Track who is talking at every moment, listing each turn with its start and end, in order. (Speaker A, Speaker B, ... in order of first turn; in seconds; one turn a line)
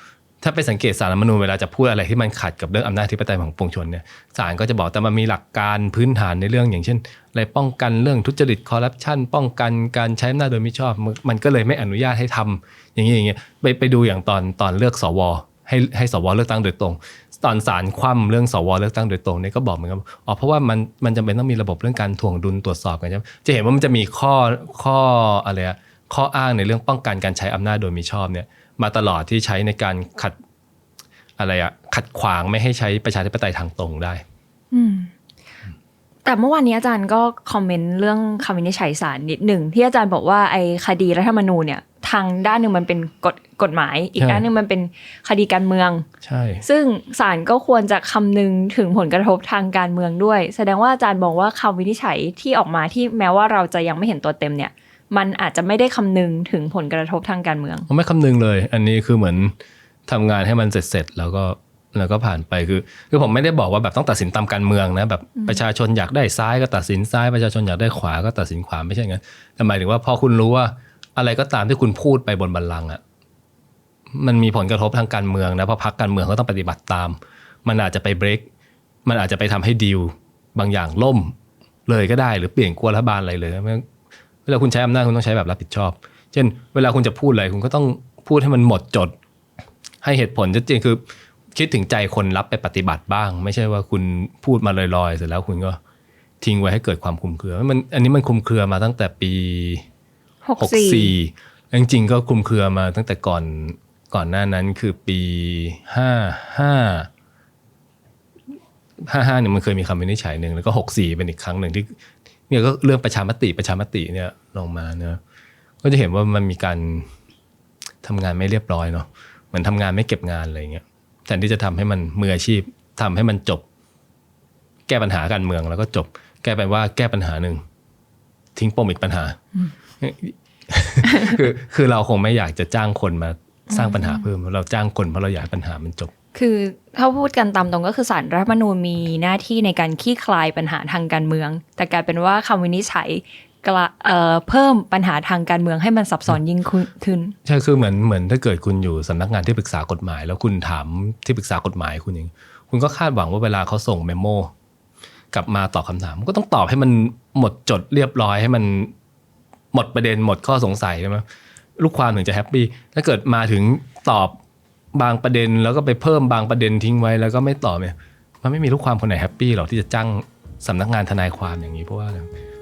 Speaker A: 0.4-30.4
Speaker A: 31.4-34.2
Speaker B: 34.7-35.1
Speaker B: 36.2-46.0
Speaker A: 44.2-44.4
Speaker A: 46.2-46.6
Speaker B: 46.6-57.9
Speaker A: 57.9-59.5
Speaker A: 60.1-73.0
Speaker A: 74.1-78.5
Speaker A: 79.0-81.3
Speaker A: 81.9-83.8
Speaker A: 84.5-89.1
Speaker A: 90.0-91.0
Speaker A: 91.5-95.8
Speaker A: 96.4-99.8
Speaker B: 100.4-101.1
Speaker A: 100.6-107.1
Speaker A: 109.0-112.0
Speaker A: 112.5-115.2
Speaker A: 115.8-117.1
Speaker A: 118.0-123.6
Speaker A: 124.9-127.6
Speaker A: 128.6-129.4
Speaker A: 130.0-136.1
Speaker B: 133.7-134.2
Speaker B: 136.3-147.3
Speaker A: 147.4-154.5
Speaker A: 155.3-158.9
Speaker A: 159.7-161.2
Speaker A: 161.8-164.4
Speaker A: 164.9-172.3